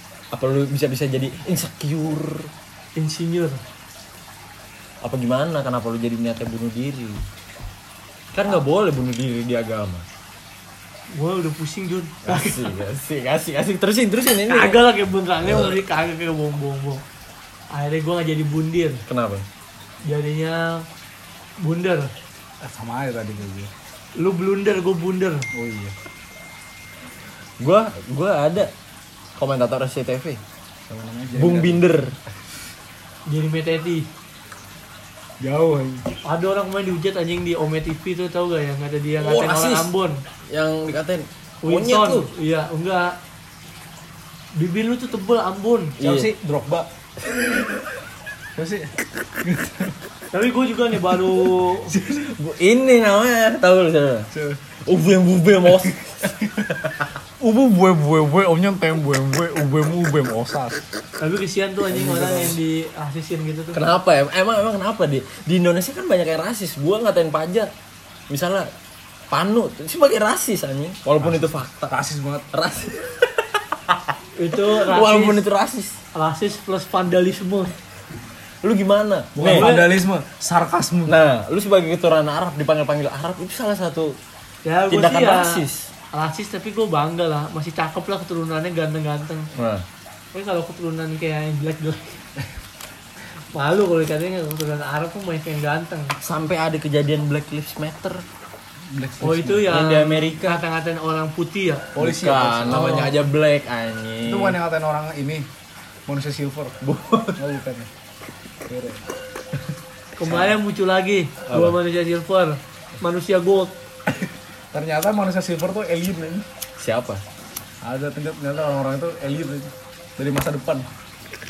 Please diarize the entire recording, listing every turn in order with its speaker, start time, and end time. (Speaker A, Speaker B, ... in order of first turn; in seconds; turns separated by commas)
Speaker A: 0.3-2.5, Speaker B: 2.9-3.6, Speaker A: 5.0-7.2, Speaker A: 8.3-10.0, Speaker B: 11.1-12.7, Speaker A: 12.2-14.8, Speaker B: 14.3-17.0, Speaker B: 17.7-19.0, Speaker A: 19.1-19.4, Speaker B: 20.0-20.9, Speaker B: 21.6-22.1, Speaker C: 22.6-23.7, Speaker B: 24.2-25.5, Speaker C: 25.5-25.9, Speaker A: 27.6-28.7, Speaker A: 29.4-30.4, Speaker C: 30.9-31.8, Speaker A: 31.3-32.1, Speaker B: 33.3-34.1, Speaker C: 35.4-36.0, Speaker B: 36.2-40.2, Speaker A: 39.2-39.9, Speaker A: 40.5-42.3, Speaker B: 41.6-43.2, Speaker B: 44.5-46.0, Speaker A: 46.0-46.3, Speaker C: 46.0-46.9, Speaker A: 47.4-47.6, Speaker C: 48.5-48.9, Speaker C: 49.4-50.0, Speaker B: 50.3-51.9, Speaker C: 51.8-52.3, Speaker A: 52.3-54.3, Speaker C: 54.3-54.6, Speaker A: 54.8-56.3, Speaker C: 55.8-56.5, Speaker C: 57.4-60.8, Speaker B: 61.2-63.8, Speaker C: 61.9-62.6, Speaker A: 63.7-67.7, Speaker A: 68.3-68.7, Speaker A: 69.3-72.0, Speaker C: 71.9-72.5, Speaker A: 72.5-76.0, Speaker B: 74.4-75.4, Speaker B: 76.1-77.7, Speaker A: 78.6-79.7, Speaker C: 79.3-81.2, Speaker B: 79.4-79.9, Speaker A: 81.1-84.2, Speaker B: 84.6-85.6, Speaker A: 84.9-85.9, Speaker B: 86.1-89.5, Speaker A: 89.5-89.8, Speaker B: 90.3-92.2, Speaker B: 93.5-96.1, Speaker A: 96.2-98.2, Speaker C: 98.9-99.7, Speaker B: 99.2-101.9, Speaker A: 99.7-100.6, Speaker C: 101.9-103.1, Speaker A: 102.0-104.6, Speaker B: 102.7-103.0, Speaker C: 104.2-105.5, Speaker C: 106.1-106.8, Speaker A: 106.8-107.4, Speaker C: 107.3-107.9, Speaker C: 108.7-109.0, Speaker B: 110.2-113.7, Speaker A: 110.2-110.5, Speaker A: 111.5-111.8, Speaker C: 114.2-116.4, Speaker A: 116.8-117.2, Speaker C: 117.8-120.9